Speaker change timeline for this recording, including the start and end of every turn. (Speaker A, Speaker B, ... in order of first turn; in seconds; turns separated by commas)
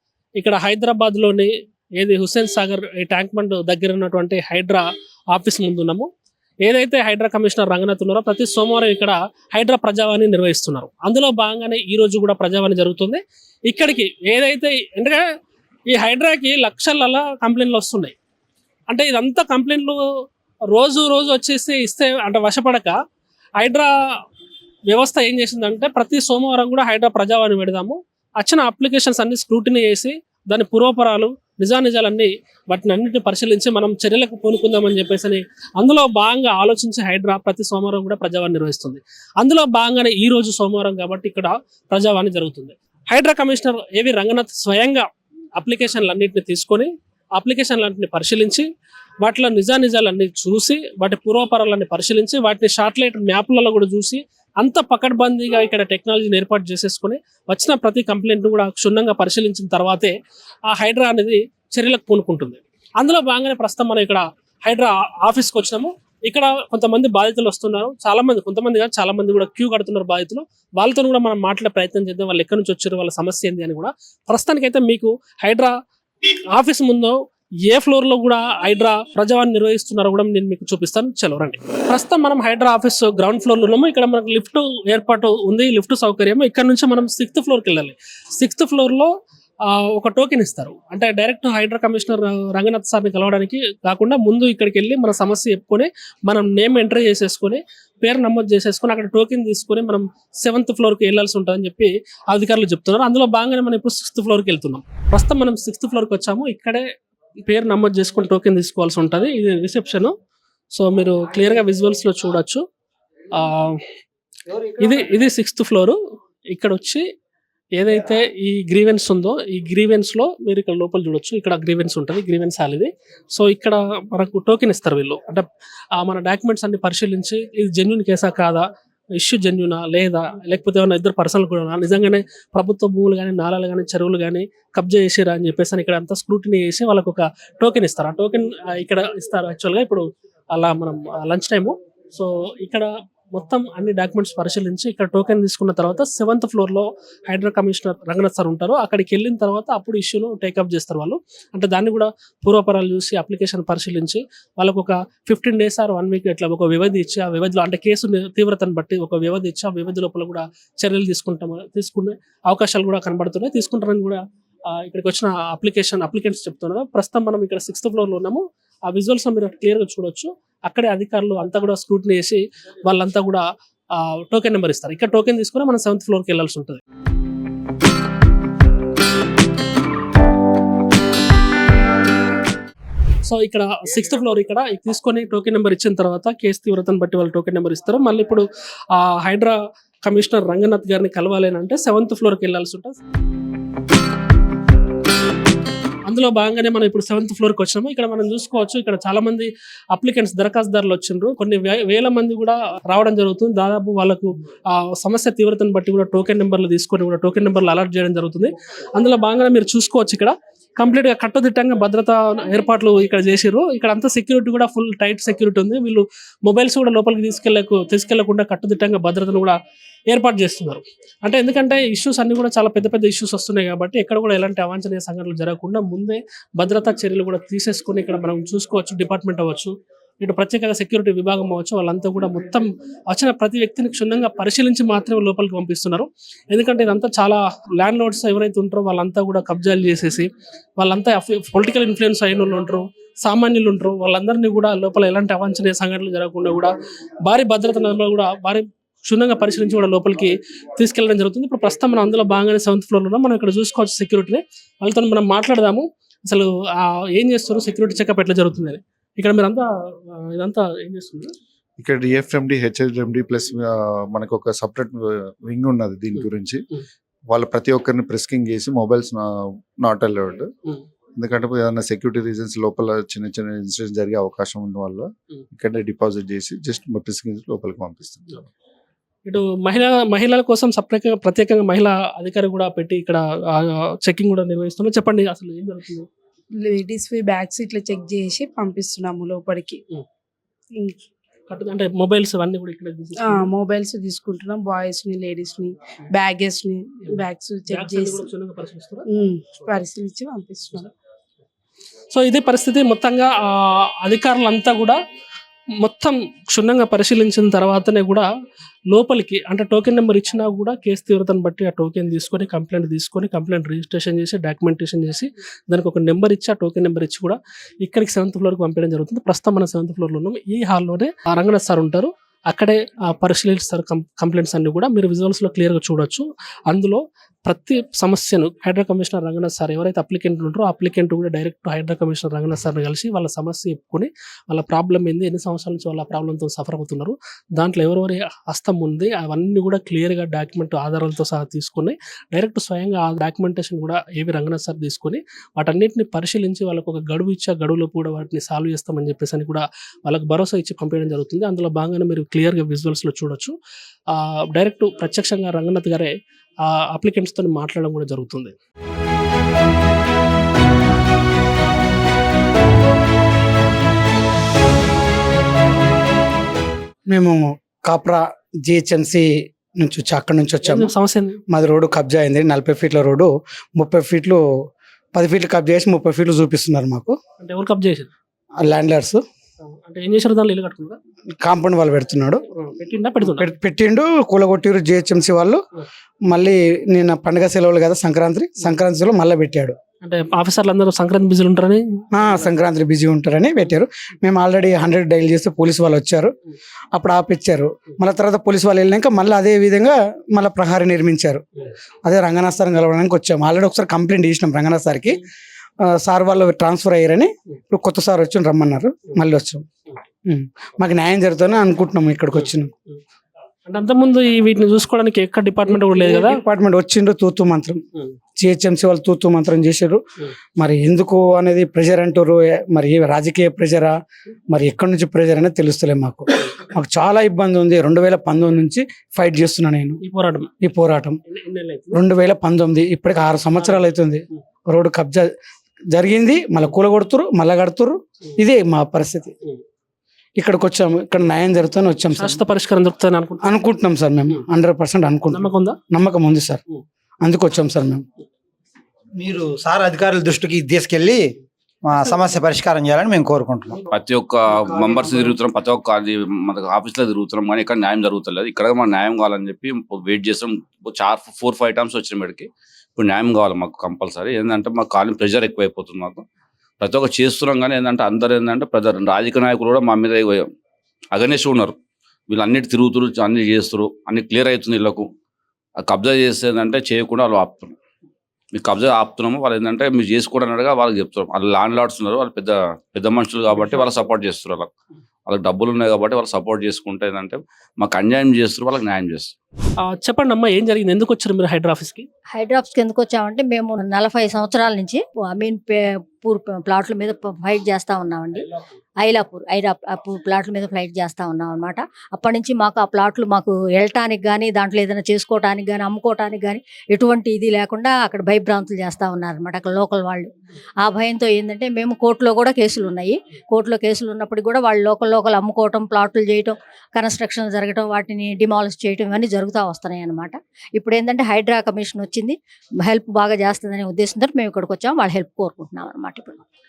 Speaker A: 0.4-6.1, Speaker A: 6.6-15.2, Speaker A: 15.9-18.1, Speaker A: 18.9-20.0, Speaker A: 20.7-23.0, Speaker A: 23.6-23.9, Speaker A: 24.9-48.7, Speaker A: 49.2-60.1, Speaker A: 60.7-75.7, Speaker A: 76.5-89.1, Speaker A: 89.7-106.8, Speaker A: 107.5-110.1, Speaker A: 110.7-112.6, Speaker A: 113.3-113.8, Speaker A: 114.8-116.0, Speaker A: 116.5-117.0, Speaker A: 117.8-128.6, Speaker A: 129.2-176.8, Speaker A: 183.2-193.0, Speaker A: 196.1-219.6, Speaker A: 220.1-261.3, Speaker B: 261.8-266.6, Speaker B: 267.3-270.5, Speaker B: 271.2-278.5, Speaker A: 279.3-286.1, Speaker C: 286.6-289.8, Speaker A: 291.5-293.5, Speaker C: 293.2-298.3, Speaker A: 297.1-299.0, Speaker C: 299.1-300.9, Speaker A: 302.1-305.0, Speaker A: 305.8-308.3, Speaker A: 308.9-353.5, Speaker A: 354.1-358.5, Speaker D: 367.1-369.3, Speaker D: 369.8-370.9, Speaker A: 370.6-371.4, Speaker D: 371.5-374.4, Speaker D: 375.1-377.1, Speaker A: 377.4-378.1, Speaker D: 378.6-379.2, Speaker A: 379.6-381.0, Speaker D: 381.4-382.4, Speaker A: 382.6-383.5, Speaker D: 383.2-385.6, Speaker D: 386.3-389.8, Speaker A: 390.0-391.8, Speaker D: 392.1-396.3, Speaker D: 396.9-401.4, Speaker D: 402.1-405.2, Speaker D: 405.9-409.6, Speaker D: 410.3-412.7, Speaker A: 412.4-413.0, Speaker A: 413.7-416.4, Speaker D: 415.8-417.8, Speaker D: 418.4-420.0, Speaker D: 420.6-423.9, Speaker D: 424.5-430.0, Speaker A: 430.0-430.5, Speaker D: 430.6-431.2, Speaker A: 431.3-432.0, Speaker D: 431.9-435.3, Speaker A: 433.6-433.9, Speaker D: 435.9-439.3, Speaker D: 440.4-442.4, Speaker A: 442.1-443.6, Speaker D: 443.4-446.6, Speaker A: 445.3-445.8, Speaker D: 447.2-448.0, Speaker E: 449.1-453.9, Speaker F: 453.9-466.2, Speaker E: 454.5-455.4, Speaker F: 466.8-470.4, Speaker F: 471.1-471.8, Speaker F: 472.3-475.1, Speaker F: 475.8-477.8, Speaker F: 478.5-484.7, Speaker F: 485.3-489.3, Speaker A: 489.9-492.1, Speaker G: 492.3-498.5, Speaker G: 499.0-510.3, Speaker G: 510.8-526.4